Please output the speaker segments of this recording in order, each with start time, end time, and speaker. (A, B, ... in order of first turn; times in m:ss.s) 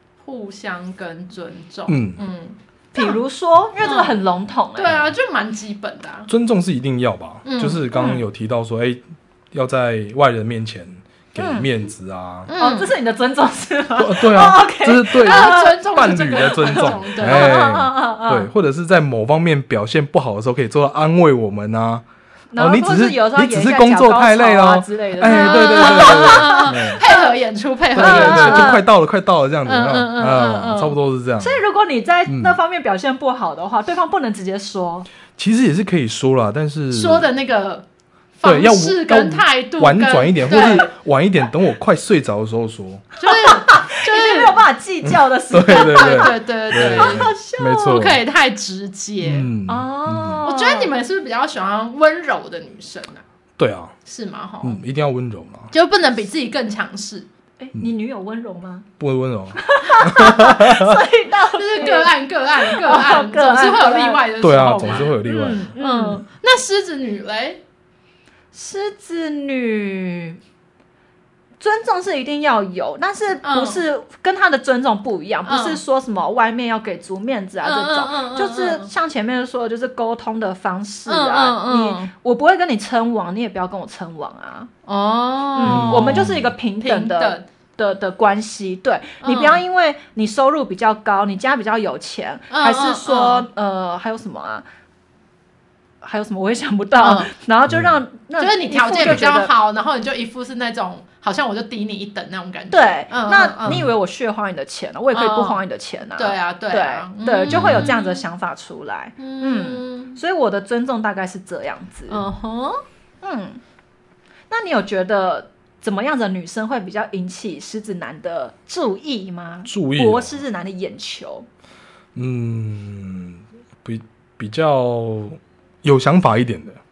0:00.2-0:03.2 A
0:01.9-0:02.2 B
0:02.9-0:05.0 C
0:03.8-0:04.2 A
0:04.8-0:06.3 A
0:06.3-0:12.5 B
0:07.4-0:07.9 A
0:07.9-0:08.2 C
0:11.4-0:11.7 C
0:12.5-0:12.9 A
0:12.6-0:18.5 C
0:14.0-0:22.0 B
0:15.2-0:17.6 A
0:22.5-0:27.3 C
0:22.6-0:27.0 B
0:25.2-0:28.8 A
0:27.9-0:31.6 B
0:28.0-0:28.8 C
0:29.6-0:31.0 A
0:31.4-0:35.1 C
0:32.3-0:32.6 B
0:35.4-0:37.3 B
0:36.9-0:37.8 A
0:38.4-0:40.9 A
0:38.4-0:43.1 B
0:43.2-0:44.6 A
0:43.2-0:48.0 C
0:45.0-0:48.2 B
0:45.9-0:49.5 A
0:49.2-0:50.4 B
0:49.7-0:50.9 C
0:50.4-0:53.2 A
0:53.6-0:54.0 B
0:54.1-0:54.8 A
0:54.6-0:55.7 B
0:55.7-0:57.3 A
0:57.6-0:58.9 C
0:59.0-1:01.0 B
0:59.6-1:04.3 C
1:01.5-1:07.6 A
1:04.4-1:05.6 B
1:04.9-1:06.2 C
1:08.5-1:10.4 C
1:11.6-1:24.7 C
1:13.4-1:13.8 A
1:15.4-1:15.8 A
1:17.6-1:18.9 A
1:21.1-1:22.1 A
1:24.9-1:27.4 A
1:25.6-1:34.6 C
1:25.6-1:26.5 B
1:29.2-1:29.6 A
1:32.5-1:33.5 A
1:36.0-1:39.5 C
1:37.0-1:37.3 A
1:38.4-1:43.8 A
1:42.7-1:52.2 C
1:45.1-1:45.6 A
1:46.2-1:48.2 A
1:47.5-1:47.9 B
1:49.2-1:50.2 A
1:52.1-1:52.8 A
1:53.2-1:53.6 C
1:54.5-2:01.5 C
1:59.7-2:00.4 B
2:02.2-2:06.8 B